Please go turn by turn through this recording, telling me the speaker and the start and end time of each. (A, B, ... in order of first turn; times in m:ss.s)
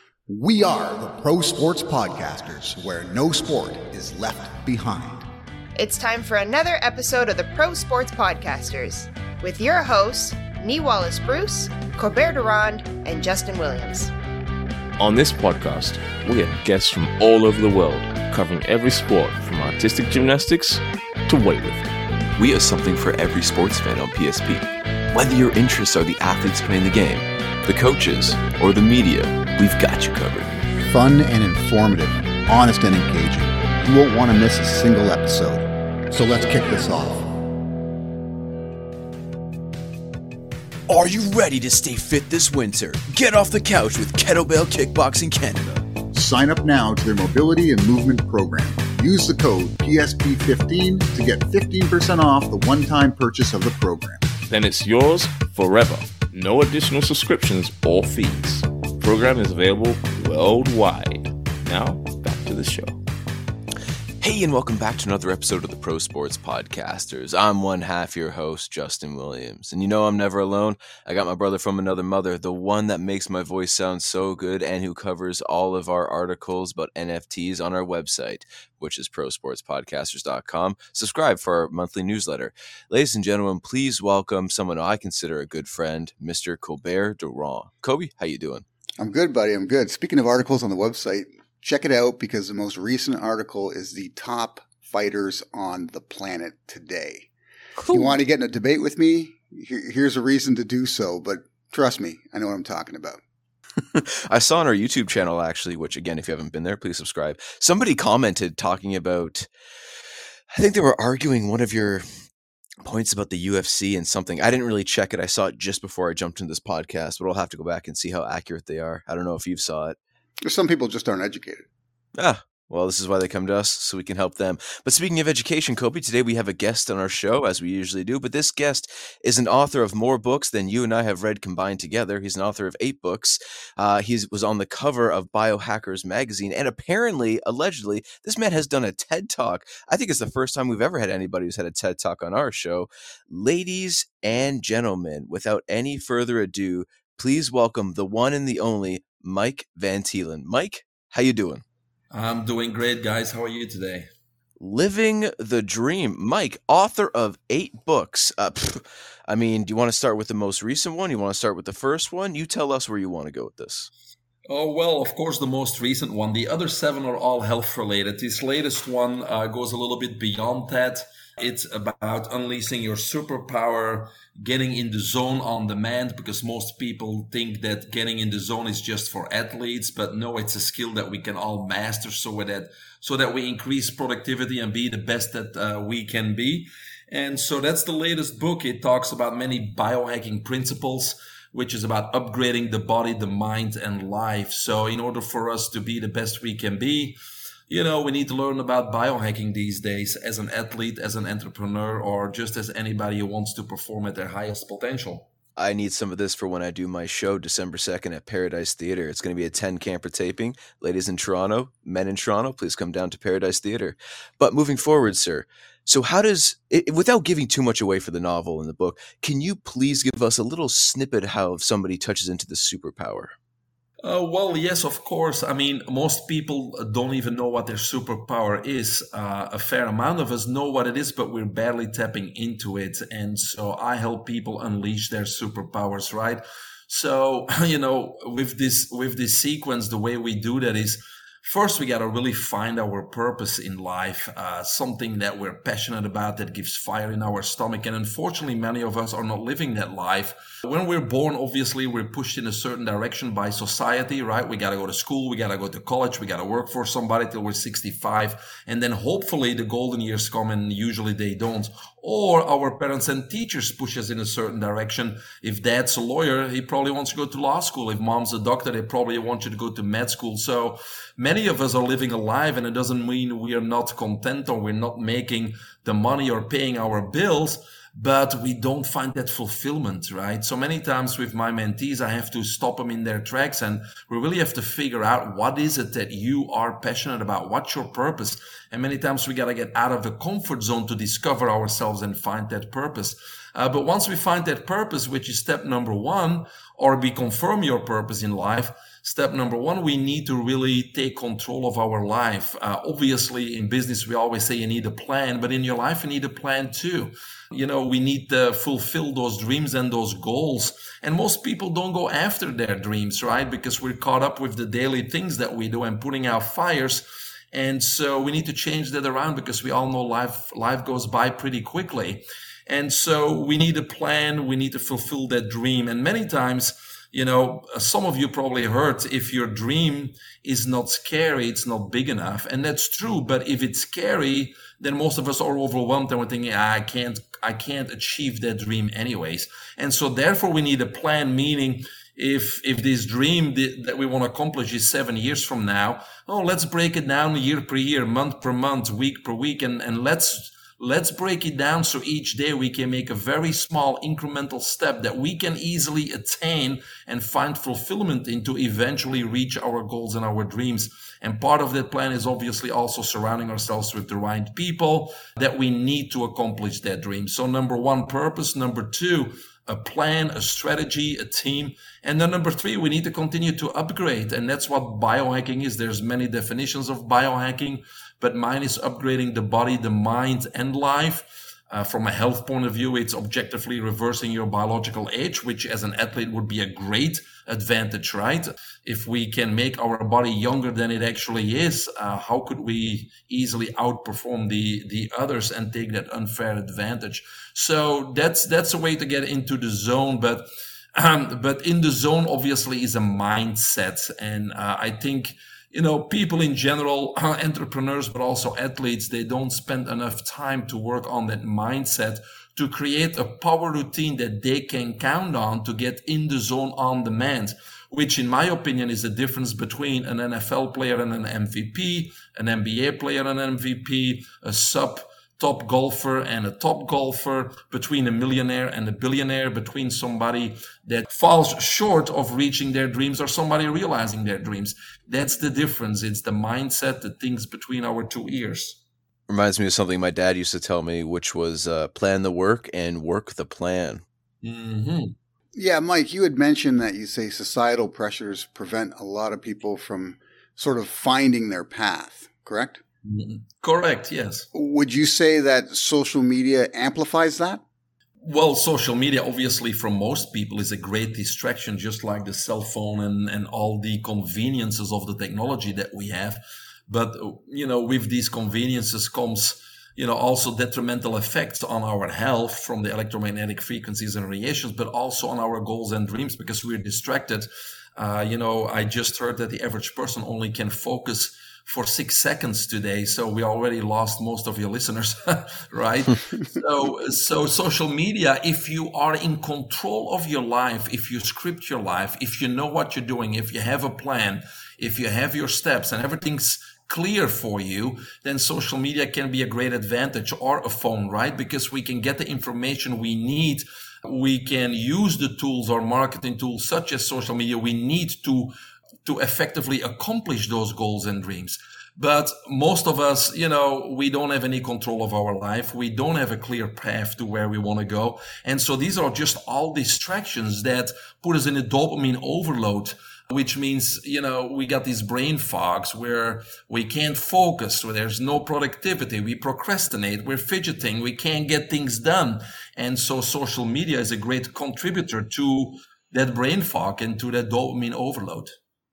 0:00.3-0:05.3 A
0:05.8-0:14.1 B
0:15.0-0:21.9 C
0:22.4-0:30.6 D
0:30.8-0:37.3 A
0:40.9-0:45.8 D
0:46.1-0:54.3 A
0:54.5-1:03.0 C
1:04.2-1:28.6 D
1:29.0-1:37.3 A
1:37.8-1:38.1 B
1:37.9-1:43.2 A
1:43.9-1:49.5 D
1:50.5-1:52.0 D
1:52.8-2:00.0 D
2:00.4-2:01.6 A
2:02.2-2:31.6 D
2:32.1-2:34.1 E
2:34.6-2:43.9 D
2:44.5-3:17.2 E
3:17.7-3:25.3 E
3:25.6-3:43.3 D
3:44.0-7:18.8 E
7:19.3-7:24.0 D
7:24.4-7:25.1 E
7:25.5-7:32.8 A
7:33.0-7:34.5 E
7:34.5-7:37.6 A
7:38.2-8:28.5 E
8:29.0-8:58.5 E